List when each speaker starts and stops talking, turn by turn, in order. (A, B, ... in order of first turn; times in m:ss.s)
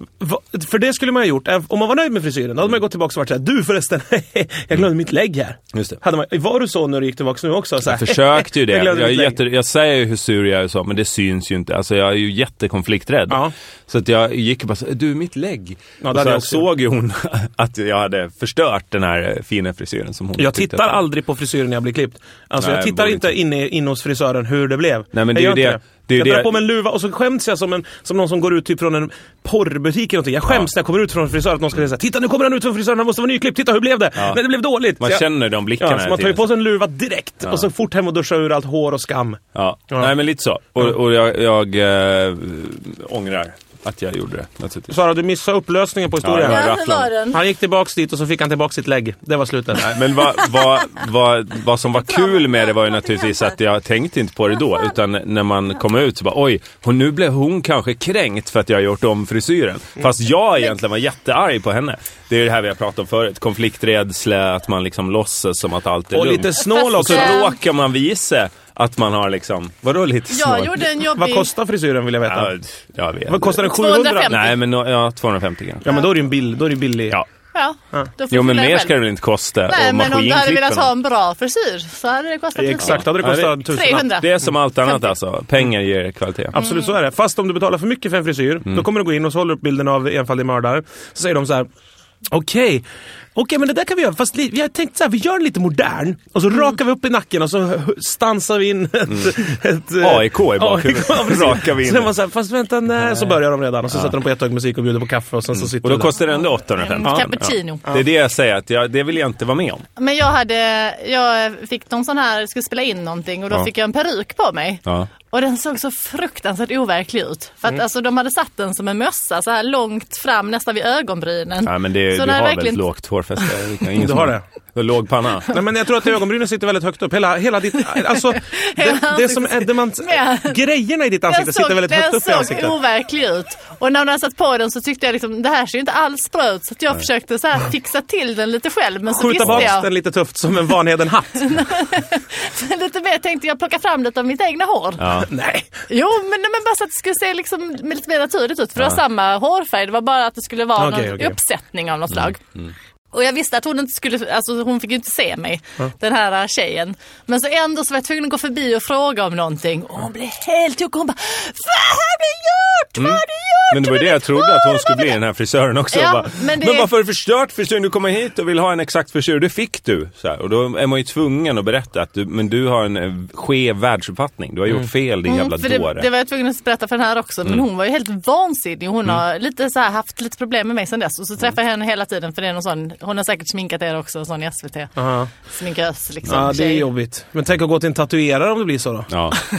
0:00.2-0:09.4 A
0:05.7-0:06.0 B
0:07.8-0:21.0 B
0:16.0-0:16.6 A
0:20.4-0:40.1 A
0:22.6-0:23.3 B
0:25.1-0:26.5 B
0:34.2-0:34.4 B
0:35.0-0:36.5 B
0:39.5-0:44.9 B
0:44.9-0:46.7 A
0:46.2-0:47.1 B
0:46.4-0:47.4 C
0:47.3-0:49.9 A
0:49.7-1:10.8 B
0:50.5-0:50.8 C
0:52.0-0:53.4 C
1:06.1-1:07.4 A
1:07.0-1:07.6 C
1:10.3-1:11.5 C
1:11.0-1:12.5 A
1:12.2-1:13.6 B
1:13.3-1:14.4 A
1:13.6-1:14.6 C
1:14.2-1:15.9 B
1:15.8-1:17.2 A
1:17.5-1:19.0 C
1:18.3-1:20.9 B
1:19.7-1:25.1 C
1:22.6-1:24.2 A
1:22.8-1:26.6 B
1:26.5-1:31.7 A
1:26.6-1:26.9 C
1:32.3-1:46.2 A
1:40.0-1:42.1 B
1:45.6-1:49.8 B
1:46.7-1:47.9 C
1:47.0-1:47.3 A
1:50.0-2:02.8 C
1:54.8-1:55.1 B
2:01.6-2:05.5 B
2:03.9-2:04.4 A
2:05.5-2:12.8 A
2:08.5-2:10.6 C
2:11.3-2:19.9 C
2:19.1-2:21.6 A
2:21.4-2:25.2 C
2:25.0-2:25.3 B
2:25.3-2:25.7 A
2:25.9-2:32.6 C
2:30.8-2:31.4 A
2:32.2-2:32.7 B
2:33.1-2:45.2 C
2:43.0-2:56.1 B
2:45.9-2:46.9 C
2:55.3-3:06.9 C
3:05.0-3:05.3 A
3:06.3-3:09.1 A
3:09.1-3:09.4 B